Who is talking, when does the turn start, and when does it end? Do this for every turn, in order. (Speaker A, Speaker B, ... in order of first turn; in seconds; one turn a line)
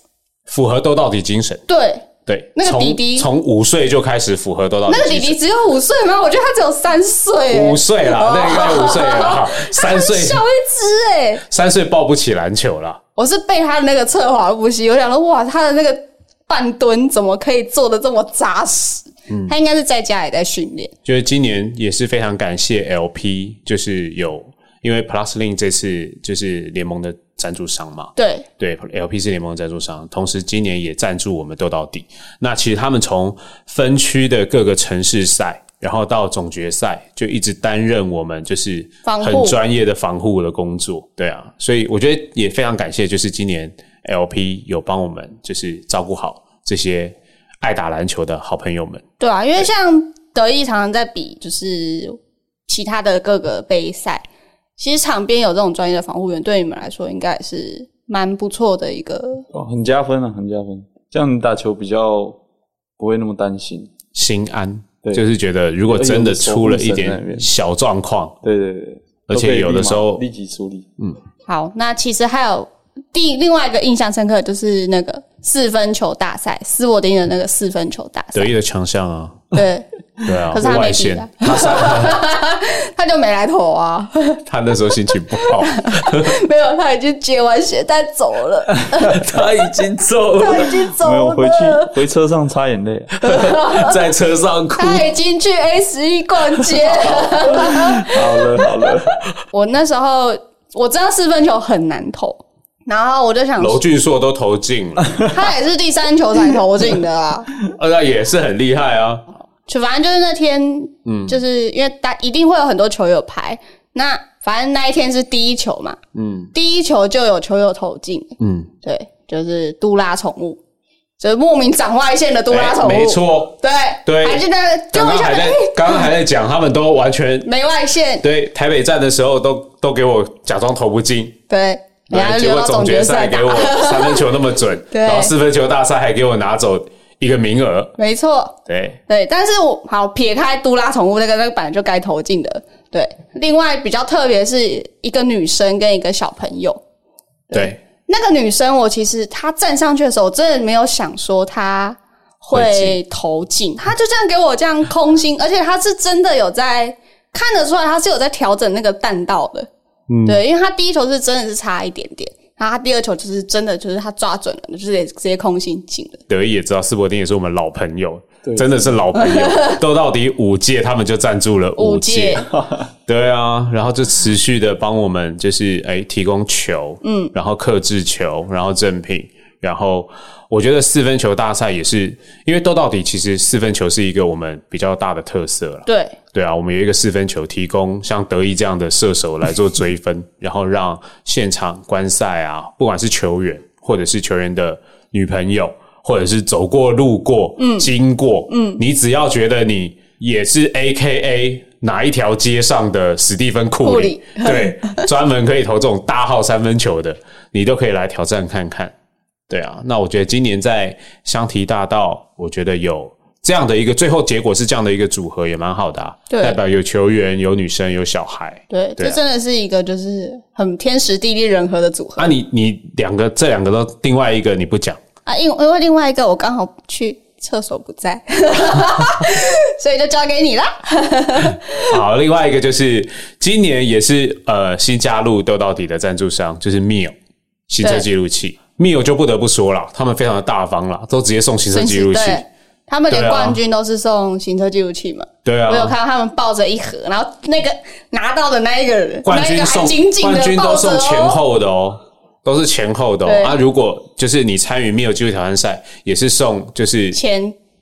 Speaker A: 0.5-1.6
Speaker B: 1.7-3.3
Speaker A: 2.2-5.3
Speaker B: 4.9-11.4
Speaker A: 7.5-10.4
Speaker A: 11.5-13.0
Speaker B: 13.2-20.9
Speaker A: 19.3-19.5
Speaker A: 21.0-49.0
Speaker B: 28.1-28.4
Speaker B: 39.0-39.6
Speaker B: 49.2-54.2
Speaker B: 54.8-59.5
Speaker C: 59.5-62.4
Speaker C: 63.0-63.9
Speaker A: 64.1-68.3
Speaker C: 65.9-67.5
Speaker C: 68.4-70.9
Speaker A: 69.3-70.2
Speaker B: 71.5-78.5
Speaker A: 78.3-79.5
Speaker B: 79.5-89.4
Speaker A: 80.2-82.2
Speaker A: 84.5-86.3
Speaker A: 89.0-90.9
Speaker B: 90.4-91.9
Speaker C: 91.0-93.2
Speaker B: 93.2-94.0
Speaker A: 93.2-95.1
Speaker B: 94.8-98.4
Speaker A: 96.7-97.5
Speaker C: 97.5-99.1
Speaker B: 99.5-103.8
Speaker A: 103.6-105.3
Speaker B: 105.2-107.5
Speaker A: 107.6-109.2
Speaker B: 109.7-116.0
Speaker A: 111.0-111.4
Speaker A: 116.1-116.5
Speaker B: 116.5-120.6
Speaker A: 118.4-118.7
Speaker B: 121.2-126.1
Speaker A: 122.5-127.5
Speaker B: 127.4-128.2
Speaker A: 128.2-131.4
Speaker B: 131.5-134.3
Speaker A: 132.1-137.9
Speaker B: 134.9-135.3
Speaker B: 138.0-138.5
Speaker A: 138.7-139.0
Speaker B: 139.1-146.8
Speaker B: 147.5-159.7
Speaker A: 147.5-147.8
Speaker A: 152.5-153.0
Speaker A: 160.1-160.4
Speaker B: 160.2-166.2
Speaker A: 166.3-172.4
Speaker C: 168.4-169.0
Speaker B: 169.1-169.8
Speaker B: 171.8-172.5
Speaker C: 172.5-172.9
Speaker A: 173.1-208.9
Speaker B: 177.0-177.3
Speaker B: 185.9-186.2
Speaker B: 197.6-197.9
Speaker B: 198.5-198.8
Speaker B: 203.8-205.1
Speaker A: 209.5-219.2
Speaker B: 216.3-216.6
Speaker B: 218.7-222.3
Speaker A: 222.2-225.0
Speaker B: 225.2-232.0
Speaker A: 231.8-237.1
Speaker A: 237.7-242.5
Speaker B: 241.7-251.4
Speaker A: 243.1-243.6
Speaker A: 245.4-245.9
Speaker A: 249.2-257.2
Speaker B: 253.2-253.6
Speaker B: 257.1-257.6